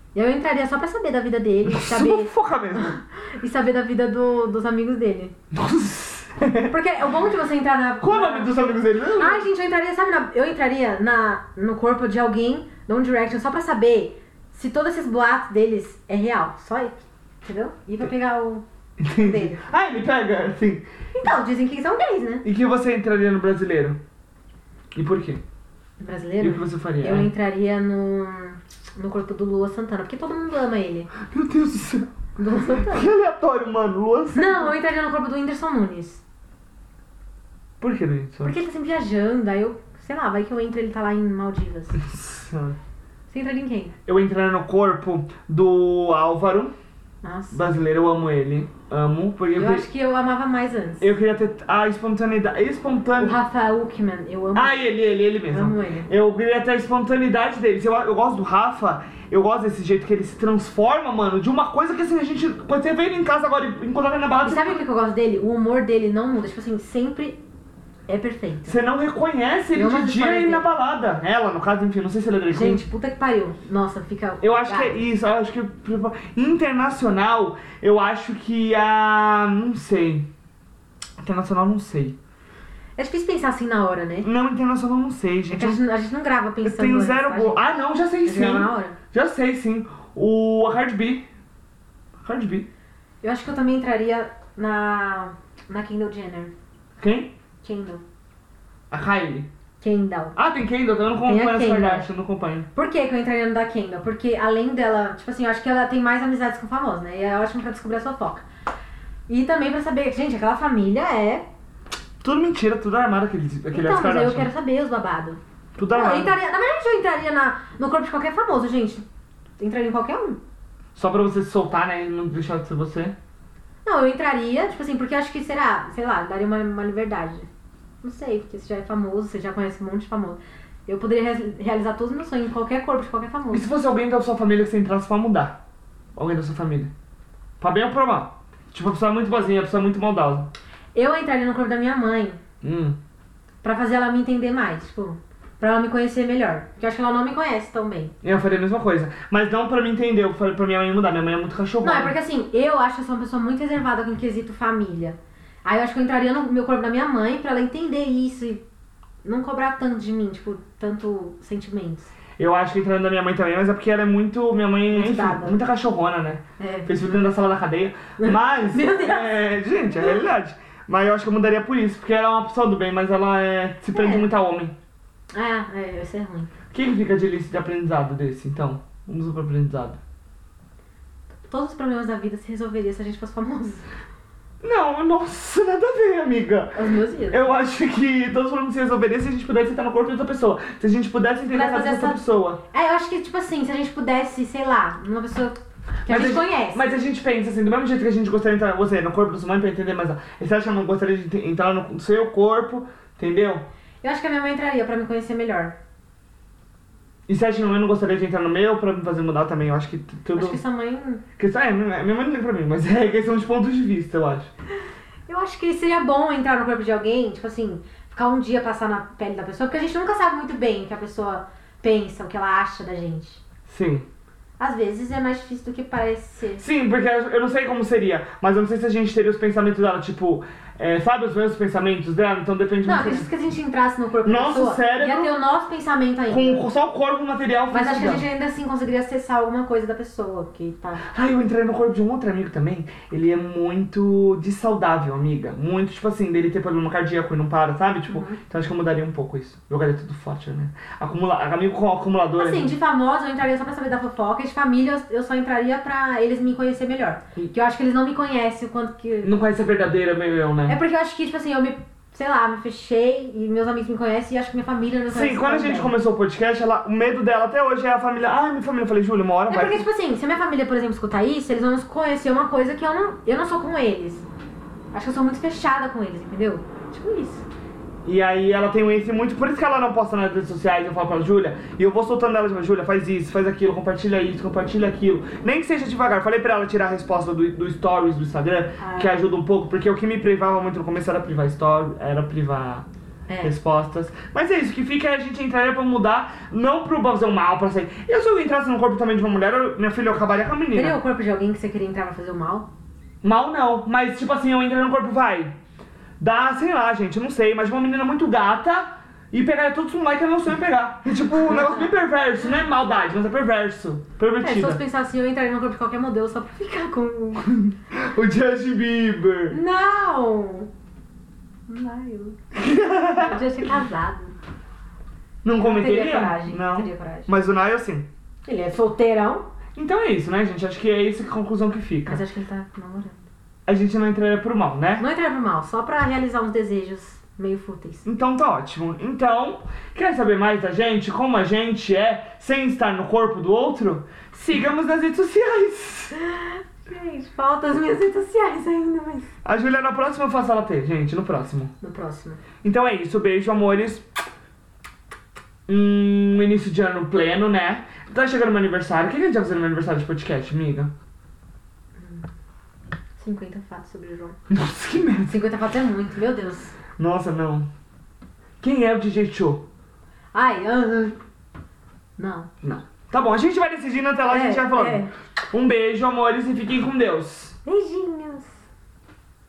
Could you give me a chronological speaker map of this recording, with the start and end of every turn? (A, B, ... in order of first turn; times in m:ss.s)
0:00.1-0:05.3 A
0:01.6-0:02.9 B
0:05.5-0:06.7 B
0:06.7-0:18.6 A
0:08.0-0:09.4 B
0:19.0-0:20.8 B
0:19.1-0:19.6 A
0:21.1-0:22.4 A
0:22.4-0:24.0 B
0:24.9-0:25.4 B
0:26.0-0:31.1 A
0:26.4-0:27.3 B
0:31.2-0:32.1 B
0:32.4-0:33.1 A
0:32.7-0:34.7 B
0:34.3-0:36.2 A
0:37.8-0:38.5 B
0:38.4-0:42.0 A
0:42.0-0:42.8 B
0:43.3-0:43.9 A
0:44.0-0:46.7 B
0:47.2-0:47.6 A
0:47.5-0:49.9 B
0:49.5-0:51.0 A
0:51.0-0:53.4 B
0:53.2-0:54.9 A
0:54.5-1:04.8 B
0:55.5-0:56.1 A
1:04.4-1:07.4 A
1:08.1-1:08.8 A
1:08.7-1:12.8 B
1:09.7-1:10.7 A
1:12.5-1:15.0 A
1:14.4-1:20.3 B
1:21.2-1:22.2 B
1:23.0-1:24.3 A
1:24.2-1:25.8 B
1:25.5-1:27.7 A
1:26.6-1:31.2 B
1:28.2-1:29.0 A
1:32.2-1:32.7 B
1:33.2-1:36.5 A
1:37.0-1:37.3 B
1:37.6-1:38.0 A
1:38.9-1:39.5 B
1:39.8-1:40.4 A
1:40.4-1:42.7 B
1:41.2-1:42.1 A
1:42.7-1:48.5 A
1:49.3-1:51.5 A
1:52.2-1:54.5 B
1:53.7-1:59.0 A
1:55.8-1:56.4 B
1:59.6-2:00.4 A
2:01.0-2:03.1 B
2:03.8-2:07.5 A
2:08.0-2:13.7 A
2:13.5-2:15.6 B
2:16.2-2:16.9 B
2:17.6-2:20.5 B
2:20.9-2:22.4 A
2:22.6-2:23.0 B
2:23.6-2:28.1 A
2:28.2-2:32.2 B
2:31.8-2:38.6 A
2:39.2-2:42.1 A
2:42.4-2:54.7 B
2:44.9-2:45.6 A
2:46.6-2:47.1 A
2:48.2-2:50.2 A
2:53.9-2:54.3 A
2:55.3-2:56.5 A
2:56.7-3:00.0 B
3:01.5-3:03.8 A
3:04.6-3:06.7 B
3:06.7-3:07.5 A
3:07.3-3:12.6 B
3:11.5-3:16.8 A
3:16.0-3:23.6 B
3:24.0-3:25.8 A
3:27.3-3:30.6 B
3:30.3-3:31.2 A
3:31.4-3:34.5 B
3:35.3-3:43.4 A
3:43.7-3:44.1 B
3:44.6-3:46.6 A
3:46.6-3:53.3 B
3:52.8-3:56.6 A
3:54.2-3:55.3 B
3:56.3-3:58.2 B
3:57.7-4:01.0 A
4:01.1-4:12.7 B
4:08.1-4:08.4 A
4:12.4-4:19.3 A
4:19.2-4:20.8 B
4:20.7-4:25.9 A
4:25.1-4:29.8 B
4:29.5-4:34.2 A
4:34.9-4:37.4 A
4:38.0-4:52.8 B
4:48.8-4:49.1 A
4:53.3-4:53.5 A
4:53.4-5:01.0 B
5:00.7-5:02.7 A
5:03.2-5:05.5 B
5:06.2-5:14.8 B
5:11.5-5:11.9 A
5:14.4-5:17.6 A
5:17.4-5:19.6 B
5:19.5-5:20.7 A
5:21.7-5:22.4 A
5:22.6-5:23.4 B
5:23.2-5:24.4 A
5:25.4-5:28.1 B
5:25.6-5:27.3 A
5:28.4-5:29.5 A
5:29.8-5:32.2 B
5:32.0-5:33.2 A
5:33.7-5:35.0 B
5:35.0-5:38.1 A
5:38.0-5:46.2 B
5:46.2-5:49.3 A
5:49.4-5:51.7 B
5:51.8-5:52.4 A
5:52.6-5:54.0 B
5:55.7-6:00.9 B
6:02.0-6:02.3 A
6:03.2-6:04.4 A
6:04.5-6:05.4 B
6:05.3-6:06.8 A
6:07.0-6:07.7 B
6:08.6-6:09.6 B
6:10.3-6:11.2 A
6:12.2-6:12.5 A
6:12.6-6:17.6 B
6:14.3-6:15.1 A
6:17.6-6:18.6 A